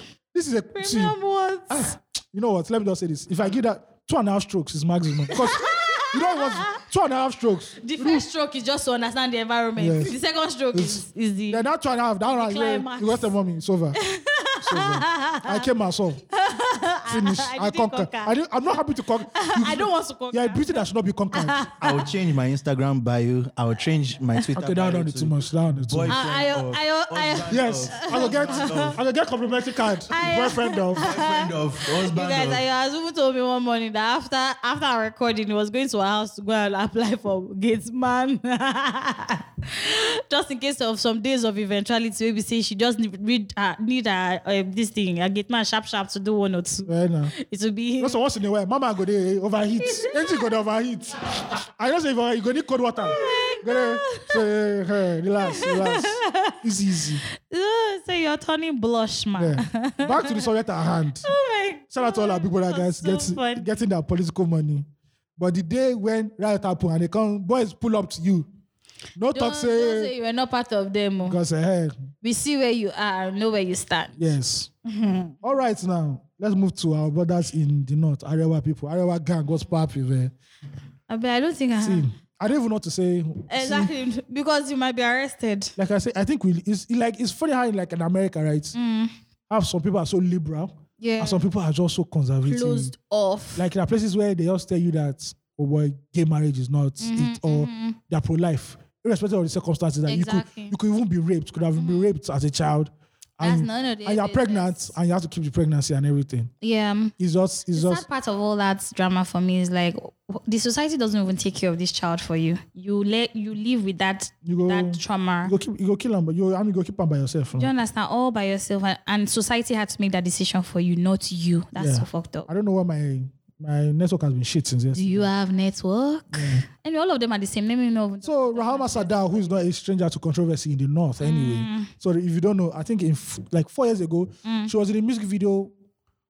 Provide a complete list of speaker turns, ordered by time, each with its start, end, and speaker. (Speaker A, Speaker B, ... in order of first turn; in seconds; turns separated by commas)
Speaker A: 0.3-1.1, Speaker B: 0.7-1.9, Speaker A: 1.7-8.2, Speaker B: 5.3-6.8, Speaker B: 7.8-11.6, Speaker A: 9.8-10.2, Speaker A: 10.7-14.0, Speaker B: 12.2-13.3, Speaker B: 13.9-15.7, Speaker A: 14.6-16.2, Speaker B: 16.3-18.3, Speaker A: 17.1-21.7, Speaker B: 19.3-20.8, Speaker B: 21.3-22.1, Speaker C: 21.8-29.0, Speaker A: 24.5-26.2, Speaker B: 26.1-29.0, Speaker A: 27.5-31.1, Speaker B: 30.1-48.2, Speaker C: 30.9-32.6, Speaker A: 46.9-47.3, Speaker A: 48.0-57.2, Speaker B: 49.8-50.4, Speaker B: 53.0-54.4, Speaker B: 55.4-56.6, Speaker B: 57.4-60.5, Speaker A: 59.4-61.3, Speaker B: 61.2-63.7, Speaker A: 61.9-68.5, Speaker A: 69.2-70.1, Speaker B: 69.3-71.4, Speaker A: 71.2-72.0, Speaker B: 72.2-74.2, Speaker A: 74.2-74.7, Speaker B: 74.8-75.4, Speaker A: 75.4-80.3, Speaker B: 81.1-82.1, Speaker A: 81.8-83.9, Speaker B: 83.5-85.7, Speaker A: 85.8-88.8, Speaker B: 88.7-89.1, Speaker A: 89.5-92.9, Speaker B: 91.0-91.5, Speaker B: 92.4-93.7, Speaker A: 93.5-106.5, Speaker B: 97.0-98.0, Speaker B: 100.1-100.8, Speaker B: 101.8-102.1, Speaker B: 103.4-104.9, Speaker B: 106.6-107.1, Speaker A: 107.2-108.0, Speaker B: 107.7-115.5, Speaker A: 114.4-117.7, Speaker B: 117.6-122.5, Speaker A: 121.8-125.3, Speaker B: 124.9-129.4, Speaker A: 126.3-126.6, Speaker A: 128.2-135.7, Speaker B: 131.2-131.9, Speaker B: 134.4-134.7